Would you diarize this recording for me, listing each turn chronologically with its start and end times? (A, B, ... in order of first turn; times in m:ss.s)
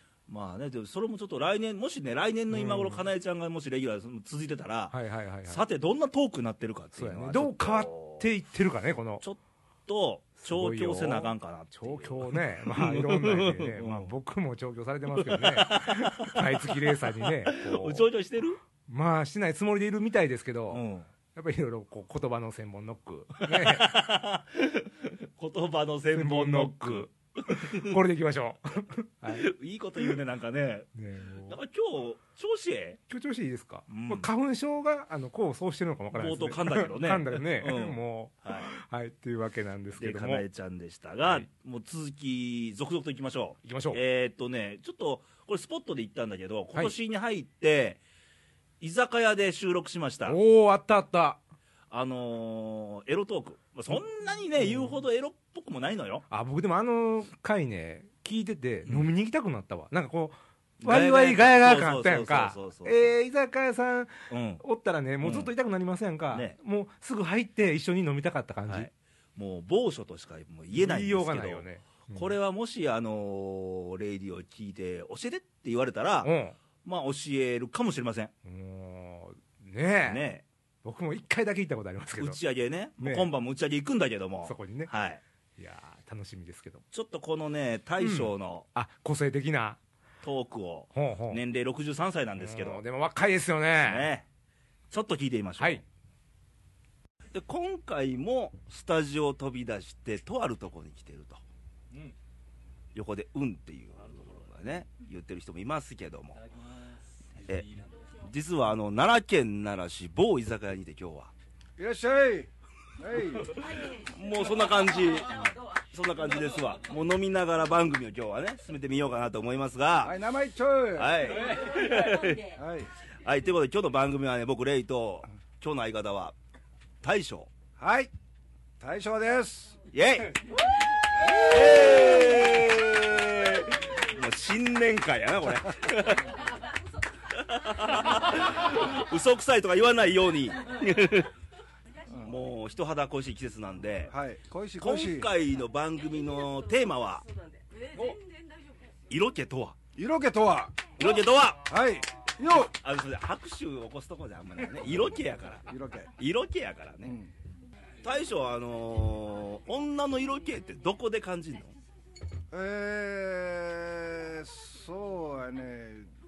0:00.3-0:08.3 A
0:02.5-0:03.0 B
0:04.9-0:05.6 B
0:06.9-0:09.2 B
0:09.2-0:14.1 A
0:10.4-0:18.0 B
0:15.2-0:18.6 A
0:18.9-0:24.0 B
0:20.7-0:21.1 A
0:23.4-0:28.0 A
0:26.1-0:29.5 B
0:29.3-0:30.9 A
0:30.9-0:31.6 B
0:31.4-0:33.0 A
0:33.1-0:40.4 B
0:33.9-0:34.3 A
0:36.1-0:38.7 A
0:40.0-0:48.0 A
0:41.2-0:41.5 B
0:43.6-0:44.0 B
0:48.8-0:50.4 A
0:50.2-0:51.4 B
0:51.9-0:56.2 A
0:54.6-0:55.0 B
0:56.3-1:08.9 B
1:00.8-1:03.1 A
1:04.3-1:04.6 A
1:05.2-1:05.5 A
1:08.7-1:16.3 A
1:10.7-1:12.3 B
1:16.2-1:16.6 B
1:16.8-1:18.3 A
1:18.4-1:20.2 B
1:20.0-1:20.4 A
1:20.8-1:22.4 B
1:22.2-1:25.2 A
1:23.0-1:23.3 B
1:24.4-1:24.9 B
1:25.6-1:26.8 B
1:26.9-1:28.6 A
1:28.0-1:29.8 B
1:30.2-1:32.8 A
1:30.9-1:31.4 B
1:32.4-1:34.1 B
1:33.8-1:34.2 A
1:34.9-1:35.8 A
1:37.3-1:41.4 A
1:42.9-1:46.4 A
1:47.4-1:51.3 A
1:51.8-1:52.5 C
1:53.0-1:53.5 C
1:53.6-2:00.2 A
2:00.0-2:01.2 C
2:01.0-2:02.5 A
2:02.6-2:02.9 C
2:03.2-2:06.3 A
2:07.0-2:07.5 A
2:07.8-2:08.1 C
2:08.8-2:09.8 C
2:09.9-2:10.4 A
2:11.2-2:16.3 A
2:17.4-2:21.3 A
2:22.2-2:24.1 A
2:24.1-2:25.3 C
2:24.8-2:27.2 A
2:29.1-2:29.8 A
2:30.0-2:30.9 C
2:31.0-2:31.7 A
2:31.6-2:32.7 C
2:32.8-2:35.6 A
2:35.7-2:36.1 C
2:36.2-2:37.2 A
2:37.0-2:37.3 C
2:38.0-2:41.7 A
2:42.5-2:46.1 C